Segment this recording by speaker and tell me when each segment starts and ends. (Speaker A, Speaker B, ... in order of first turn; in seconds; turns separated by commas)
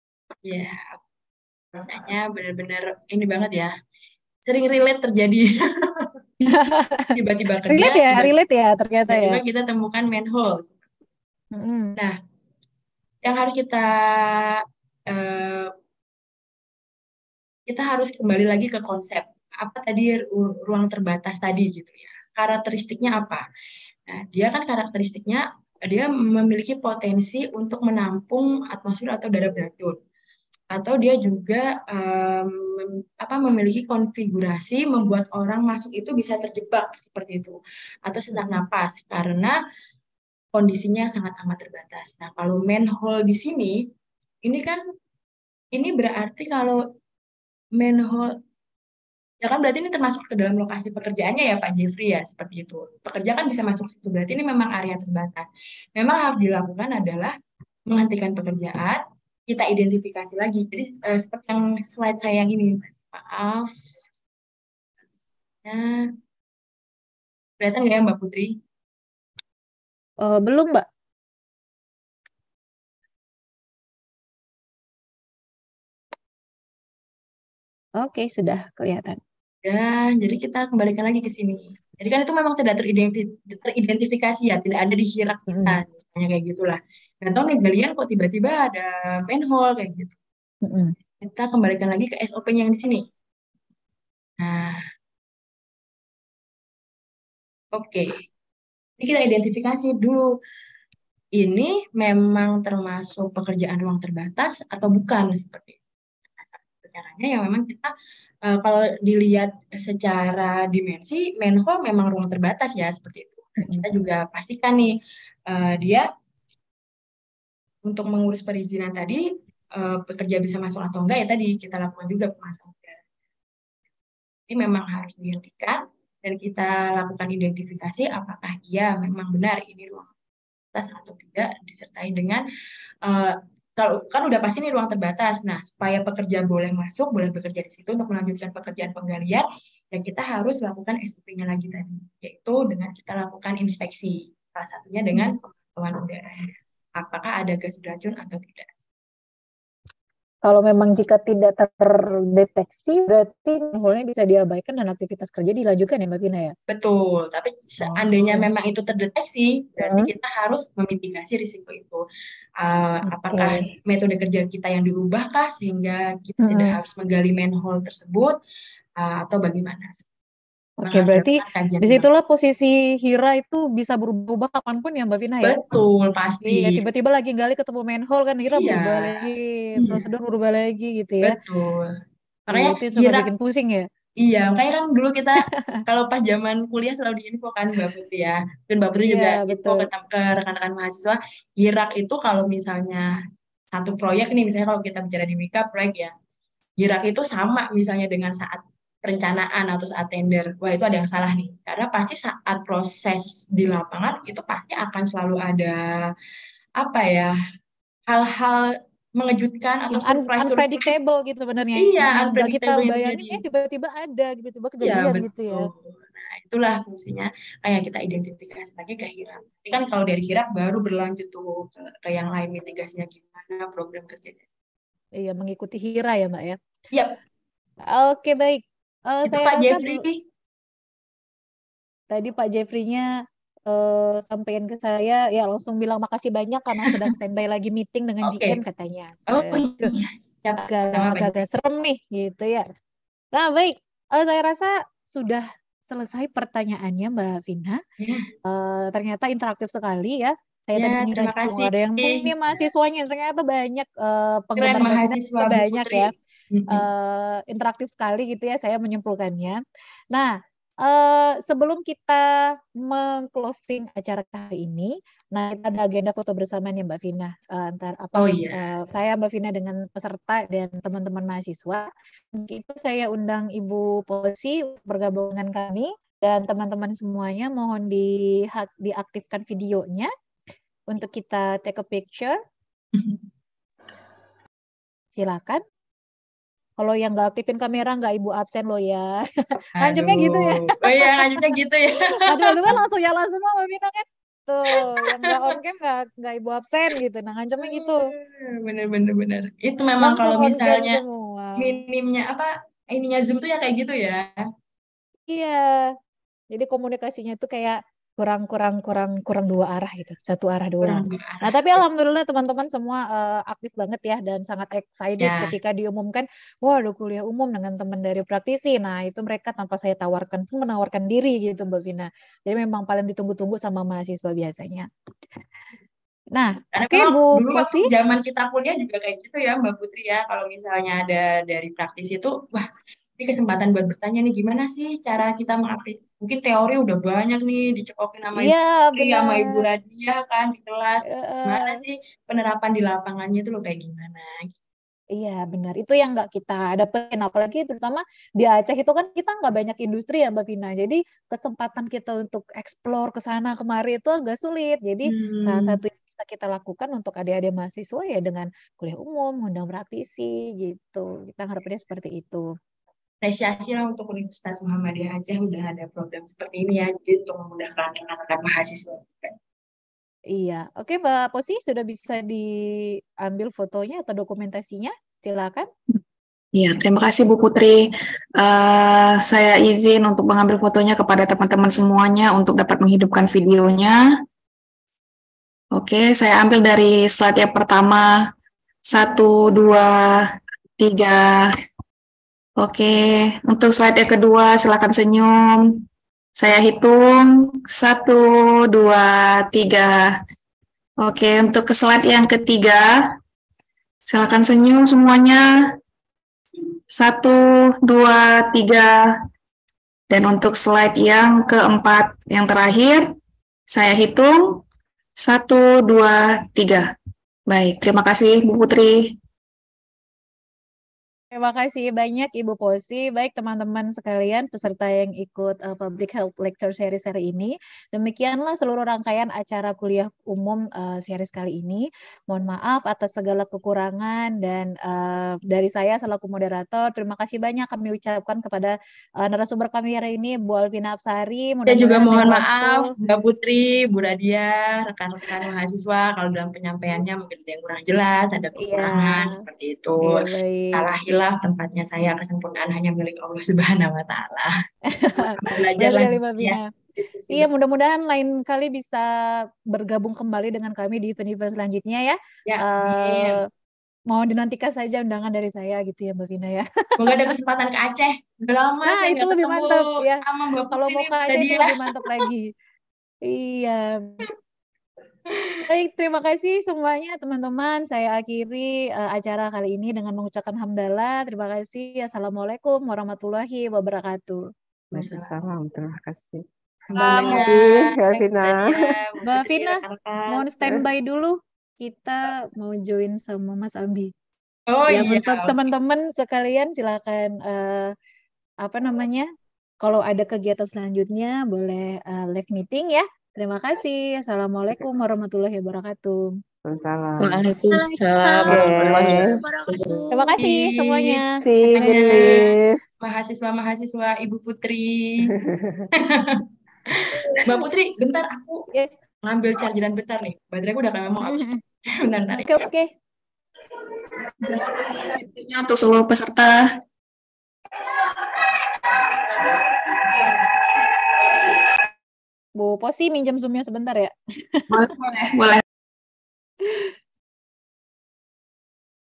Speaker A: 0.4-1.0, Speaker A: 1.7-3.7, Speaker A: 4.5-6.1, Speaker B: 6.5-7.1, Speaker A: 7.2-8.3, Speaker B: 7.7-9.4, Speaker A: 9.1-10.8, Speaker B: 11.5-11.9, Speaker A: 13.2-15.7, Speaker A: 17.7-23.4, Speaker A: 24.1-30.0, Speaker A: 30.7-39.5, Speaker A: 40.5-43.8, Speaker A: 44.4-44.8, Speaker A: 45.7-46.8, Speaker A: 47.8-48.3, Speaker A: 49.4-57.3, Speaker A: 57.9-64.0, Speaker A: 65.2-66.0, Speaker A: 67.6-68.5, Speaker B: 70.2-70.8, Speaker B: 78.0-79.2, Speaker A: 79.6-90.1, Speaker B: 85.5-85.8, Speaker B: 90.6-90.9, Speaker A: 91.2-93.0, Speaker A: 94.4-94.8, Speaker A: 97.7-98.2, Speaker A: 99.0-100.3, Speaker A: 101.3-105.8, Speaker A: 106.3-107.9, Speaker A: 108.5-115.0, Speaker B: 113.6-113.8, Speaker A: 115.5-116.0, Speaker A: 117.8-123.0, Speaker A: 124.5-130.1, Speaker A: 130.7-132.4, Speaker A: 133.0-148.8, Speaker B: 150.4-156.5, Speaker A: 156.7-162.0, Speaker B: 157.8-158.5, Speaker B: 159.8-160.1, Speaker A: 162.6-168.3, Speaker B: 163.0-163.6, Speaker B: 166.4-166.7, Speaker A: 169.0-170.0, Speaker B: 170.8-175.6, Speaker A: 170.8-172.1, Speaker A: 175.4-176.8, Speaker B: 176.4-181.3, Speaker A: 178.5-180.0, Speaker A: 181.2-181.9, Speaker A: 182.5-183.3, Speaker B: 182.5-183.9, Speaker A: 184.2-193.1, Speaker B: 185.4-185.8, Speaker B: 189.1-189.9, Speaker A: 193.7-196.1, Speaker A: 196.8-206.1, Speaker A: 206.8-207.3, Speaker A: 208.1-211.0, Speaker B: 209.9-215.7, Speaker A: 211.8-213.4, Speaker A: 214.8-224.4, Speaker B: 225.2-226.6, Speaker A: 226.9-227.2, Speaker B: 227.9-230.0, Speaker A: 229.2-230.2, Speaker B: 232.1-233.1, Speaker B: 233.7-240.0, Speaker A: 238.2-238.6, Speaker A: 239.3-241.3, Speaker B: 240.6-242.7, Speaker B: 243.3-247.8, Speaker A: 248.0-248.3, Speaker B: 248.4-256.1, Speaker A: 250.8-252.3, Speaker A: 254.6-256.8, Speaker B: 256.7-259.6, Speaker B: 260.1-262.2, Speaker B: 262.8-280.1, Speaker A: 268.1-268.6, Speaker B: 280.9-282.4, Speaker A: 282.9-283.2, Speaker B: 285.1-285.6, Speaker B: 286.8-291.5, Speaker A: 289.8-292.8, Speaker B: 292.2-298.0, Speaker A: 295.2-295.5, Speaker A: 297.6-301.0, Speaker B: 300.0-301.8, Speaker A: 301.6-304.3, Speaker B: 305.3-305.9, Speaker B: 306.5-324.9, Speaker A: 310.8-311.8, Speaker A: 315.2-315.5, Speaker B: 326.3-327.9, Speaker A: 326.7-332.7, Speaker A: 333.2-344.4, Speaker B: 338.4-339.6, Speaker B: 341.1-341.8, Speaker B: 345.2-362.5, Speaker A: 355.0-355.8, Speaker A: 363.2-369.3, Speaker B: 370.3-375.7, Speaker C: 376.5-384.0, Speaker C: 385.7-388.2, Speaker C: 388.9-391.5, Speaker C: 392.6-395.8, Speaker C: 396.4-400.1, Speaker C: 401.0-403.1, Speaker C: 404.1-405.4, Speaker C: 406.9-409.1, Speaker C: 410.1-413.1, Speaker C: 413.7-414.6, Speaker C: 415.2-416.9, Speaker C: 417.5-419.1, Speaker B: 421.3-442.9, Speaker A: 441.7-454.5, Speaker B: 448.6-449.4, Speaker B: 450.0-450.9, Speaker B: 454.9-456.6, Speaker A: 455.1-457.5, Speaker B: 457.3-463.5, Speaker A: 462.4-463.4, Speaker B: 464.1-467.3, Speaker A: 467.0-472.0, Speaker B: 468.8-472.5, Speaker B: 473.2-474.3, Speaker A: 475.3-475.6, Speaker B: 475.7-484.5, Speaker A: 484.9-485.3, Speaker D: 484.9-488.9, Speaker A: 486.9-490.4, Speaker B: 487.0-487.4, Speaker B: 489.2-494.1, Speaker A: 494.7-495.7, Speaker B: 494.9-497.9, Speaker B: 498.6-499.3, Speaker B: 499.8-506.4, Speaker D: 506.6-507.5, Speaker A: 507.2-512.5, Speaker D: 508.4-510.1, Speaker B: 510.1-512.2, Speaker D: 511.4-512.8, Speaker A: 513.0-515.3, Speaker D: 515.3-515.8, Speaker A: 516.0-518.6, Speaker A: 519.2-522.6, Speaker B: 521.2-521.6, Speaker B: 522.3-522.9, Speaker C: 524.4-526.7, Speaker C: 528.9-530.9, Speaker B: 532.6-534.6, Speaker C: 534.7-535.6